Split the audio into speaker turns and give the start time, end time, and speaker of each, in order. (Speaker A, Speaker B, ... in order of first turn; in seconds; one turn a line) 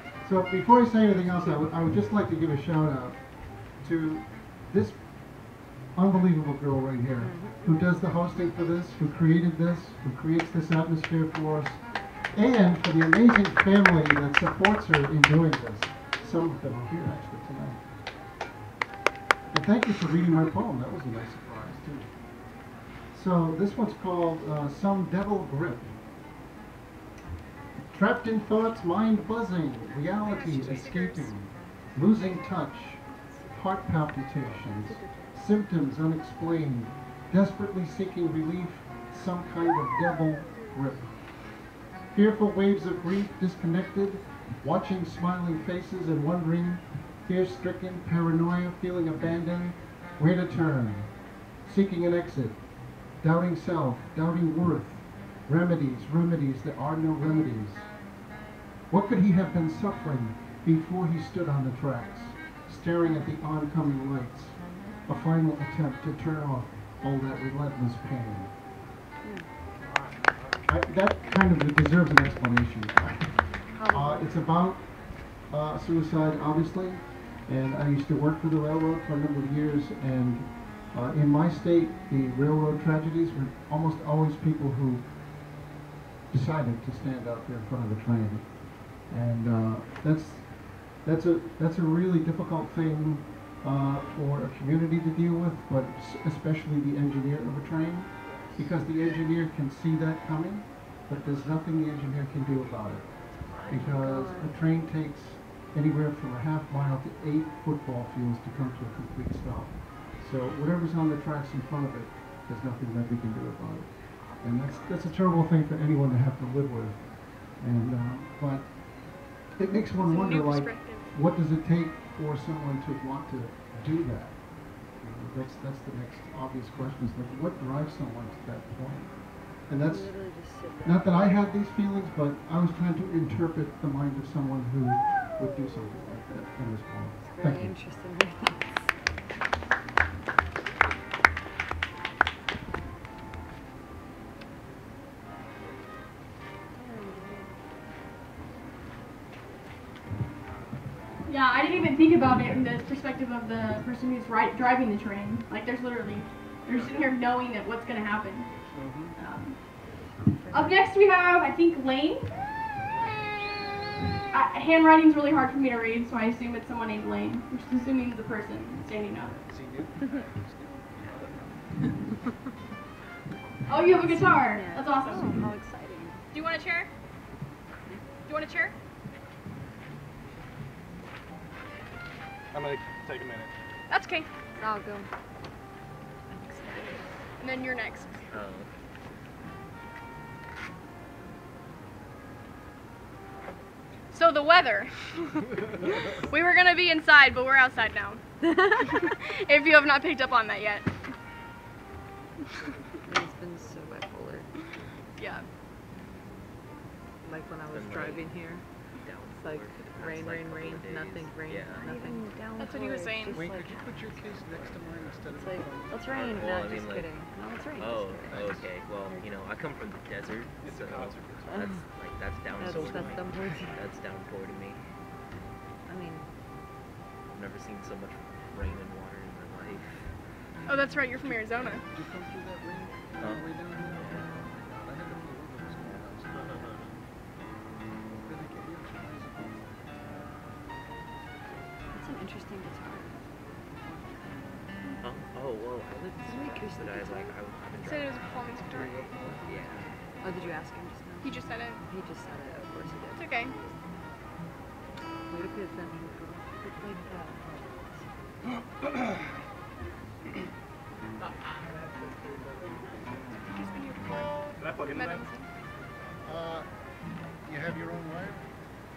Speaker A: 0.2-17.9
Speaker B: 1.2-1.6
Speaker B: 7.2-7.6
Speaker A: 19.5-22.1
Speaker A: 23.1-25.9
Speaker A: 27.9-41.3
Speaker C: 30.2-31.4
Speaker B: 33.3-33.9
Speaker B: 34.6-35.4
Speaker A: 42.1-51.1
Speaker A: 51.6-52.6
Speaker A: 53.2-57.9
Speaker A: 58.9-68.5
Speaker B: 69.2-69.5
Speaker D: 69.9-70.3
Speaker A: 70.7-85.1
Speaker B: 73.7-74.4
Speaker A: 86.3-137.7
Speaker B: 103.5-104.5
Speaker C: 120.0-121.1
Speaker B: 129.8-131.4
Speaker B: 137.2-138.9
Speaker B: 146.8-147.6
Speaker C: 151.3-158.5
Speaker A: 158.8-159.2
Speaker C: 159.2-159.6
Speaker B: 160.0-160.9
Speaker C: 160.5-162.3
Speaker C: 164.3-169.4
Speaker A: 169.5-170.8
Speaker E: 171.0-171.3
Speaker C: 173.7-175.3
Speaker B: 173.9-176.2
Speaker C: 176.3-176.9
Speaker C: 178.3-178.8
Speaker D: 182.5-183.5
Speaker C: 183.9-184.3
Speaker B: 184.6-185.1
Speaker B: 186.3-187.1
Speaker C: 187.4-188.2
Speaker E: 188.3-188.7
Speaker C: 194.1-194.9
Speaker C: 195.8-198.2
Speaker B: 198.4-199.1
Speaker C: 198.9-200.9
Speaker B: 203.1-204.5
Speaker C: 205.2-205.4
Speaker B: 207.2-208.6
Speaker E: 207.7-208.4
Speaker E: 209.0-212.3
Speaker B: 209.3-214.8
Speaker C: 212.6-213.4
Speaker A: 213.3-216.1
Speaker B: 215.3-219.3
Speaker E: 216.1-217.1
Speaker E: 217.8-224.8
Speaker D: 220.7-221.5
Speaker B: 221.5-221.8
Speaker B: 222.6-223.8
Speaker B: 225.9-226.3
Speaker E: 227.3-230.1
Speaker C: 230.7-231.8
Speaker A: 231.3-236.9
Speaker E: 233.2-233.5
Speaker E: 234.0-234.3
Speaker A: 238.2-240.3
Speaker B: 241.9-244.6
Speaker E: 245.0-248.5
Speaker B: 246.2-247.3
Speaker C: 247.8-249.2
Speaker E: 249.4-249.9
Speaker B: 250.2-253.6
Speaker C: 251.2-251.8
Speaker C: 253.1-253.6
Speaker B: 255.3-258.1
Speaker D: 261.2-263.5
Speaker C: 263.5-265.4
Speaker D: 264.6-265.3
Speaker A: 266.2-266.7
Speaker A: 267.4-268.4